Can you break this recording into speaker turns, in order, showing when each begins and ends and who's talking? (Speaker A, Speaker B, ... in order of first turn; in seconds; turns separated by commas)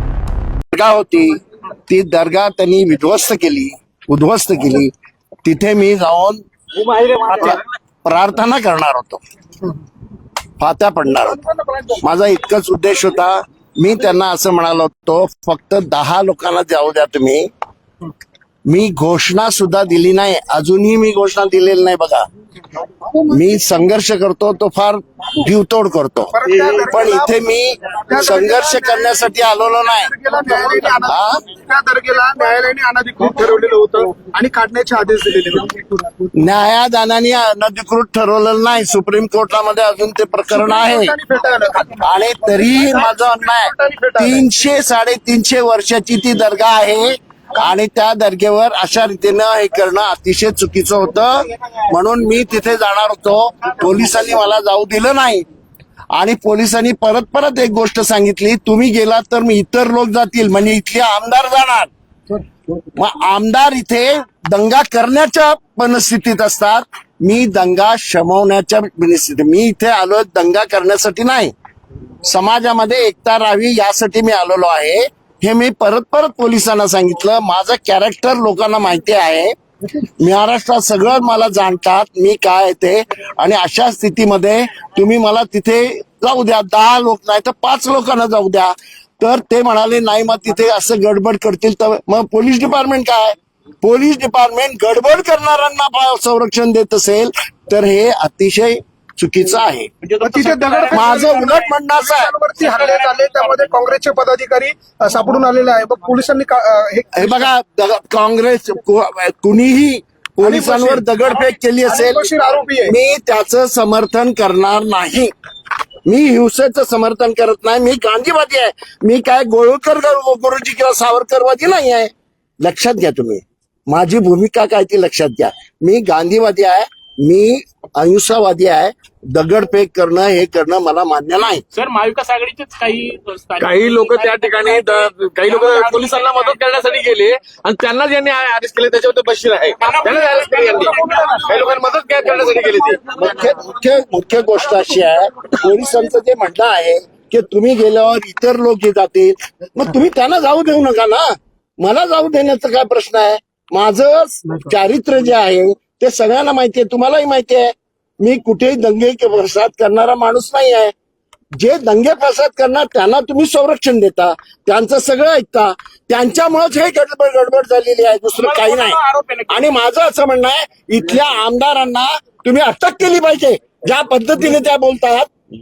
Speaker A: 0.7-4.9, Speaker A: 5.4-6.4, Speaker B: 7.0-7.2, Speaker A: 7.3-9.2, Speaker A: 10.6-17.5, Speaker A: 18.6-22.2, Speaker A: 23.3-30.1, Speaker C: 26.3-27.3, Speaker C: 28.1-29.1, Speaker C: 29.9-36.2, Speaker A: 31.1-31.4, Speaker A: 36.4-41.1, Speaker C: 40.5-42.0, Speaker A: 42.0-55.4, Speaker C: 42.8-44.4, Speaker A: 56.1-61.9, Speaker A: 62.9-71.5, Speaker A: 72.2-79.5, Speaker A: 80.2-99.9, Speaker D: 100.0-101.6, Speaker C: 100.2-107.5, Speaker A: 100.9-102.3, Speaker D: 102.6-103.7, Speaker A: 107.1-112.2, Speaker C: 110.4-111.0, Speaker C: 111.9-112.9, Speaker A: 112.8-115.3, Speaker A: 116.0-122.1, Speaker A: 122.6-131.6, Speaker D: 131.7-136.9, Speaker B: 133.6-143.0, Speaker D: 139.8-141.6, Speaker C: 140.6-141.4, Speaker A: 143.1-151.2, Speaker A: 151.8-160.9, Speaker A: 161.6-175.3, Speaker D: 168.3-169.7